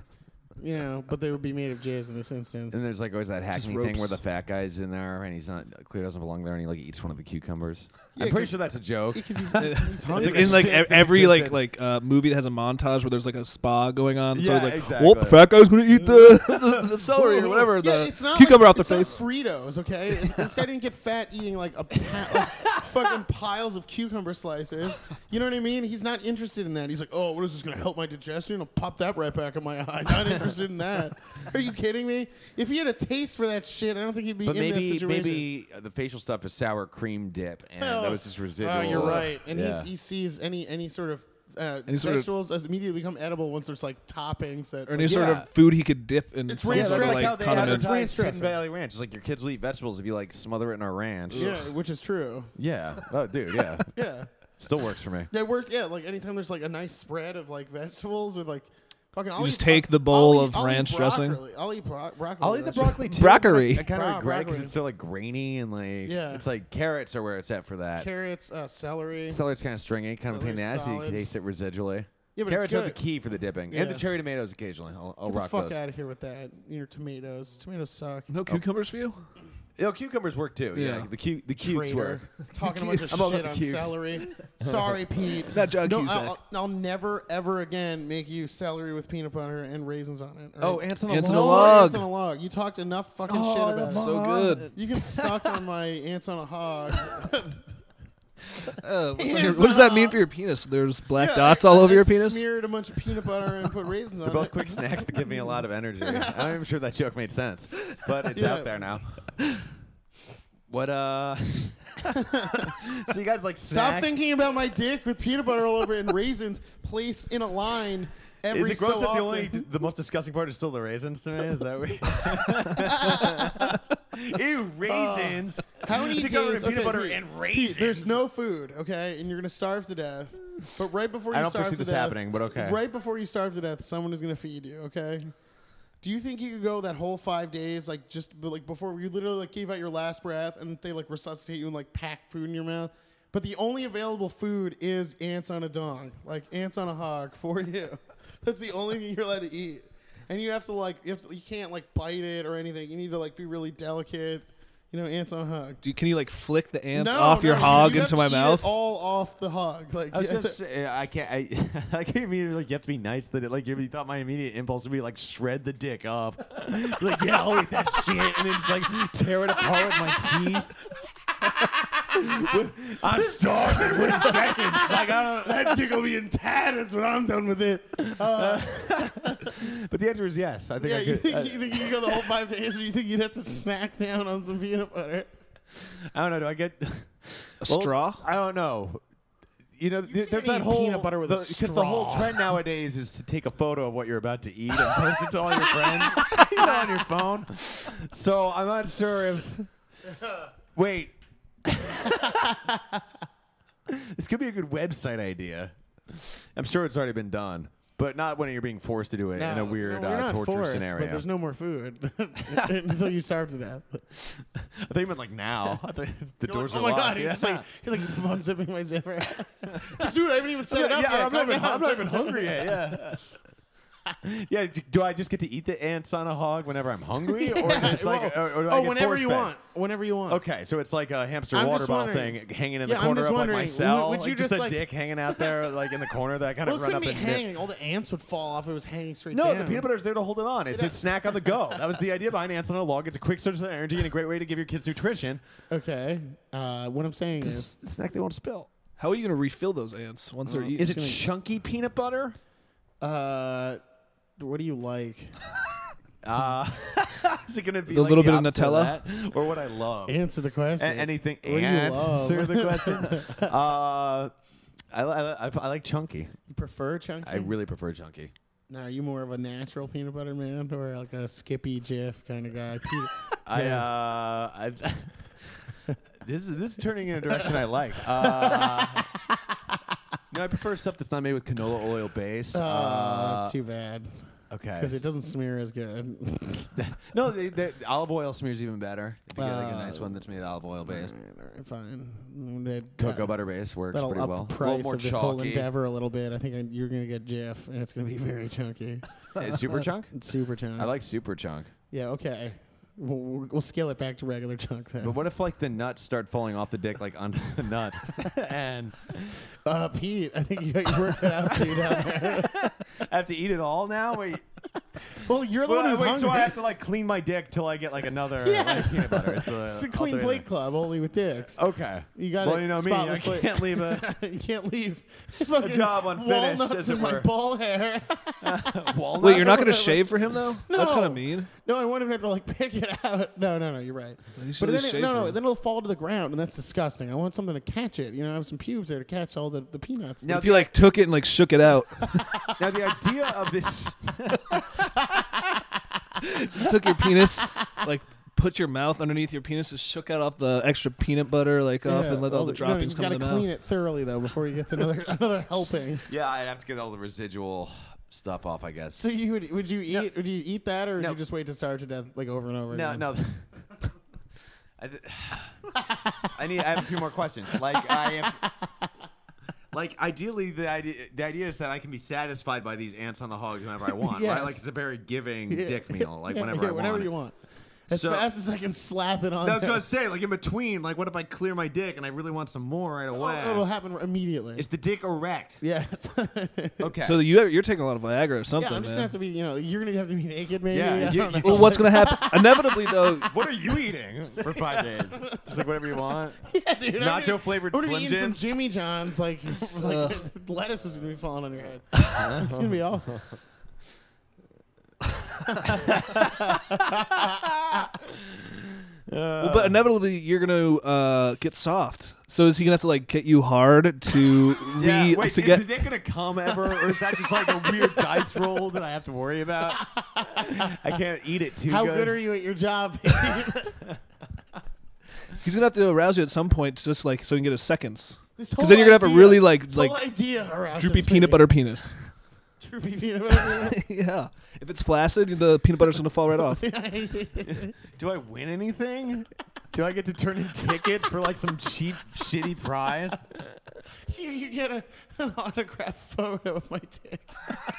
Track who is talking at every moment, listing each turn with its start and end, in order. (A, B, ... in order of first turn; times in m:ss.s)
0:00.6-0:02.8 A
0:02.7-0:11.6 B
0:03.5-0:04.2 C
0:08.1-0:10.8 A
0:09.6-0:19.2 C
0:14.3-0:15.5 B
0:16.0-0:35.5 A
0:34.4-0:39.9 B
0:37.8-0:45.4 A
0:41.9-0:42.3 C
0:44.9-0:47.8 C
0:45.0-0:45.5 B
0:46.5-0:48.6 A
0:46.7-0:51.5 B
0:51.3-0:51.6 C
0:51.3-0:52.5 A
0:52.5-0:53.9 B
0:53.9-0:54.3 A
0:54.6-0:55.3 B
0:55.3-1:03.0 A
0:59.4-1:01.4 C
1:02.4-1:08.1 B
1:03.0-1:03.9 C
1:03.8-1:04.8 A
1:06.0-1:06.4 A
1:08.0-1:09.4 A
1:09.3-1:15.8 B
1:10.2-1:11.3 A
1:12.4-1:13.0 A
1:13.7-1:14.0 A
1:15.2-1:18.3 A
1:18.3-1:19.2 C
1:19.8-1:22.2 B
1:20.7-1:21.1 C
1:21.6-1:34.1 A
1:22.6-1:23.0 C
1:23.0-1:24.9 B
1:25.5-1:26.4 C
1:30.6-1:32.0 B
1:31.1-1:32.1 C
1:33.2-1:35.6 B
1:33.9-1:34.7 C
1:34.7-1:37.6 A
1:38.7-1:42.4 C
1:39.2-1:40.2 A
1:41.2-1:45.2 A
1:44.2-1:49.4 B
1:46.0-1:46.4 A
1:48.3-1:48.7 A
1:50.7-1:54.2 B
1:52.1-1:52.7 A
1:53.7-1:59.7 A
1:58.5-2:08.2 B
2:02.5-2:03.7 A
2:04.8-2:15.3 A
2:11.3-2:12.8 B
2:16.0-2:35.8 A
2:35.8-2:38.7 C
2:36.9-2:40.6 A
2:40.1-2:50.7 B
2:51.4-2:52.2 A
2:52.1-2:55.8 B
2:53.1-2:59.5 A
2:58.0-3:02.2 B
3:00.8-3:05.3 A
3:05.7-3:09.0 B
3:07.6-3:08.2 C
3:09.8-3:19.7 B
3:10.1-3:12.5 A
3:15.6-3:16.9 A
3:20.7-3:22.5 B
3:22.0-3:23.0 A
3:23.9-3:31.2 B
3:29.4-3:34.1 A
3:32.5-3:32.7 B
3:34.1-3:37.6 B
3:36.4-3:43.0 A
3:39.7-3:43.2 B
3:44.2-3:49.5 B
3:47.3-3:50.4 A
3:50.3-3:57.5 B
3:51.5-3:55.6 A
3:56.6-3:59.9 A
3:59.3-4:05.4 B
4:00.7-4:01.7 A
4:05.7-4:07.7 A
4:07.4-4:08.7 B
4:09.0-4:11.0 C
4:10.4-4:11.2 A
4:10.8-4:12.4 B
4:13.0-4:13.8 A
4:14.4-4:15.3 A
4:16.2-4:20.2 B
4:17.9-4:19.0 C
4:20.1-4:23.5 A
4:20.8-4:24.3 B
4:24.9-4:26.3 B
4:26.5-4:27.6 A
4:27.2-4:28.3 B
4:28.7-4:33.8 A
4:33.4-4:35.5 B
4:36.2-4:39.1 B
4:38.2-4:39.5 A
4:40.3-4:43.5 B
4:42.5-4:46.8 A
4:44.5-4:45.0 B
4:46.7-4:51.1 B
4:49.4-4:50.2 A
4:50.9-4:53.4 A
4:53.0-4:55.7 B
4:53.9-4:59.0 A
4:59.3-5:00.1 B
5:00.1-5:00.9 A
5:00.8-5:01.7 B
5:01.9-5:05.2 A
5:05.0-5:09.5 B
5:09.6-5:12.7 A
5:11.0-5:14.4 B
5:15.1-5:16.6 A
5:15.6-5:20.4 B
5:18.4-5:21.6 A
5:21.5-5:24.1 B
5:22.1-5:29.9 A
5:25.5-5:27.3 B
5:28.4-5:30.2 B
5:29.2-5:31.5 C
5:30.7-5:40.4 A
5:34.4-5:35.4 C
5:40.2-5:40.7 B
5:40.4-5:42.4 C
5:42.6-5:45.4 B
5:46.2-5:53.5 C
5:51.8-5:56.1 A
5:56.1-5:59.0 B
5:58.9-6:03.1 A
6:02.7-6:03.4 B
6:04.8-6:05.7 B
6:06.3-6:08.4 B
6:08.4-6:08.7 A
6:09.7-6:17.1 B
6:14.0-6:14.6 A
6:15.5-6:17.4 A
6:17.9-6:19.8 A
6:17.9-6:18.3 B
6:19.4-6:23.6 B
6:23.1-6:24.6 A
6:24.6-6:25.6 B
6:25.6-6:26.9 A
6:26.8-6:27.2 B
6:27.0-6:29.1 C
6:28.6-6:33.2 A
6:30.7-6:31.9 B
6:31.4-6:33.4 C
6:33.3-6:38.4 B
6:34.4-6:35.4 A
6:36.4-6:43.2 A
6:39.8-6:40.1 C
6:42.2-6:42.7 B
6:45.5-6:47.4 A
6:45.7-6:49.8 B
6:49.4-6:55.7 C
6:54.8-7:02.2 B
6:57.6-6:58.0 A
6:59.7-7:00.8 A
7:01.6-7:03.8 A
7:03.2-7:03.5 B
7:05.4-7:10.0 C
7:08.4-7:11.5 A
7:10.8-7:12.0 C
7:12.6-7:13.8 A
7:13.5-7:16.7 C
7:16.5-7:17.7 A
7:17.4-7:23.4 B
7:24.1-7:27.6 A